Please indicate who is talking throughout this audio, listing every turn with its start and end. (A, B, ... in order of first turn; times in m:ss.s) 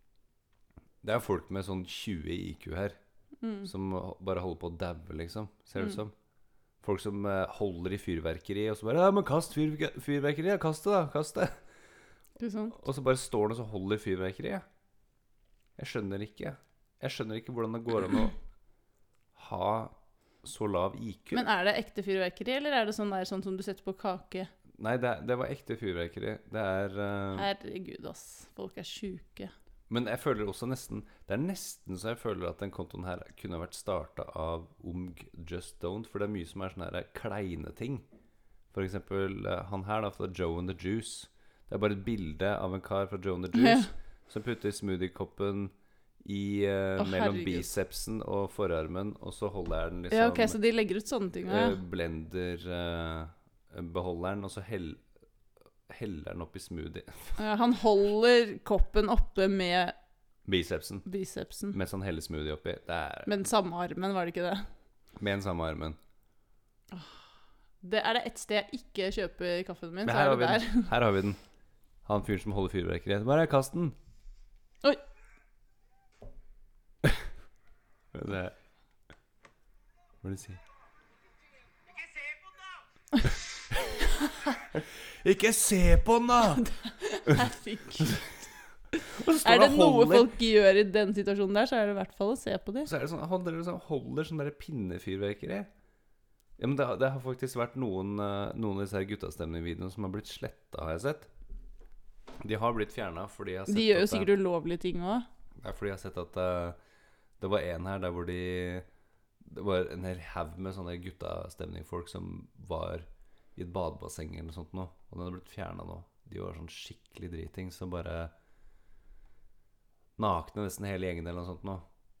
0:01.0-0:03.0 A
0:03.4-0:03.7 B
0:03.6-0:06.1 A
0:06.8-0:11.6 A
0:12.4-0:12.8 B
0:12.7-0:14.6 A
0:15.8-0:18.4 A
0:19.3-0:21.4 A
0:21.3-0:24.5 B
0:24.7-0:27.5 A
0:27.3-0:29.5 B
0:29.9-0:38.0 A
0:38.7-0:50.6 A
0:43.5-0:43.9 B
0:47.0-0:47.7 B
0:50.1-0:51.8 B
0:51.4-0:55.0 A
0:55.9-0:57.4 A
0:57.4-0:59.9 B
1:00.4-1:01.0 A
1:01.0-1:01.8 B
1:01.7-1:03.3 A
1:03.2-1:04.7 B
1:05.2-1:06.0 A
1:06.9-1:07.2 B
1:07.8-1:10.9 B
1:10.0-1:11.4 A
1:12.0-1:14.0 A
1:18.1-1:18.5 A
1:20.2-1:20.6 A
1:23.7-1:24.0 A
1:24.7-1:26.7 A
1:26.5-1:28.3 B
1:29.1-1:30.3 A
1:29.3-1:32.9 B
1:32.8-1:35.7 A
1:36.6-1:41.3 A
1:42.4-1:44.3 A
1:43.7-1:45.2 B
1:45.6-1:46.8 A
1:47.4-1:48.8 A
1:49.4-1:58.3 A
2:00.2-2:01.8 A